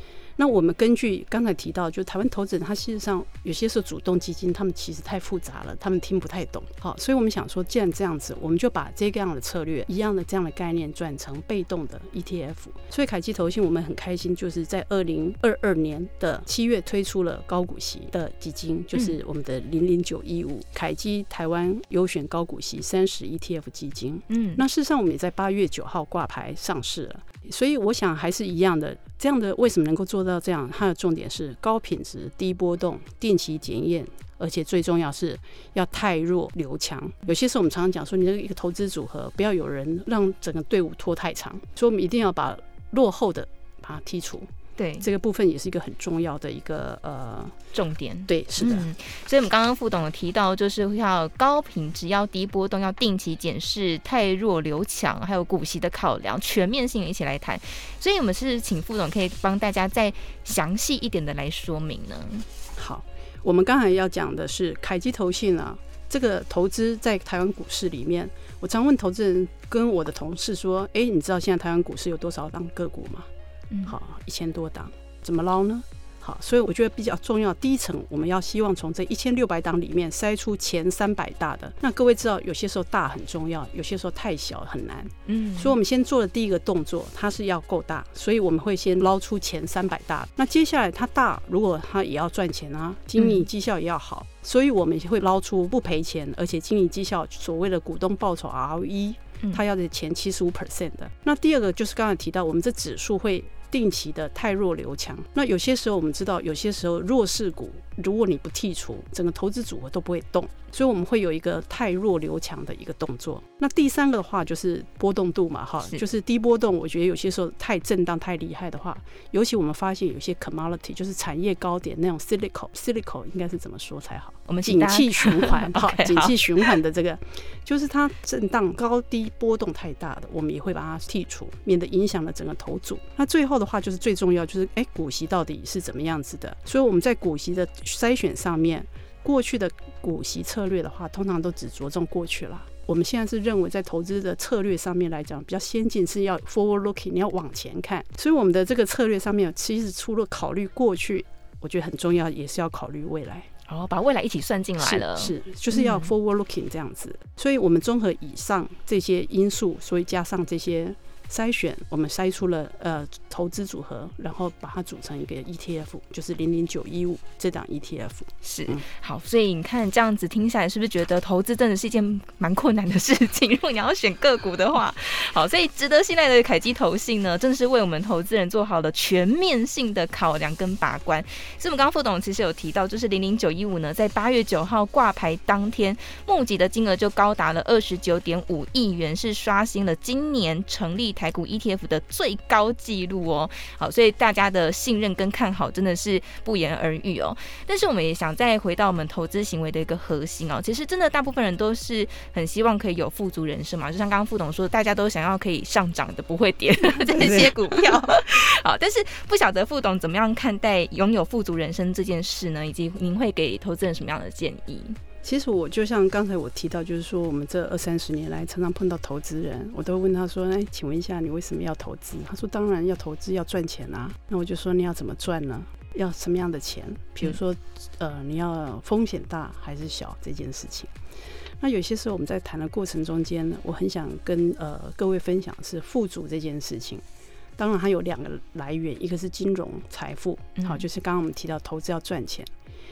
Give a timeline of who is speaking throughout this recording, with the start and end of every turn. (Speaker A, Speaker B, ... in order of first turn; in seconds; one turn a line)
Speaker A: 0.4-47.6
Speaker B: 24.3-24.6
Speaker B: 44.8-45.1
Speaker B: 47.7-62.5
Speaker A: 48.3-48.9
Speaker A: 62.8-73.3
Speaker B: 73.7-74.0
Speaker A: 73.9-153.5
Speaker B: 85.3-85.8
Speaker B: 93.2-93.5
Speaker B: 124.5-126.8
Speaker B: 153.7-156.1
Speaker A: 154.8-168.8
Speaker B: 168.4-215.0
Speaker A: 207.0-208.0
Speaker A: 215.2-230.9
Speaker A: 231.6-237.0
Speaker A: 237.6-242.5
Speaker B: 240.6-240.8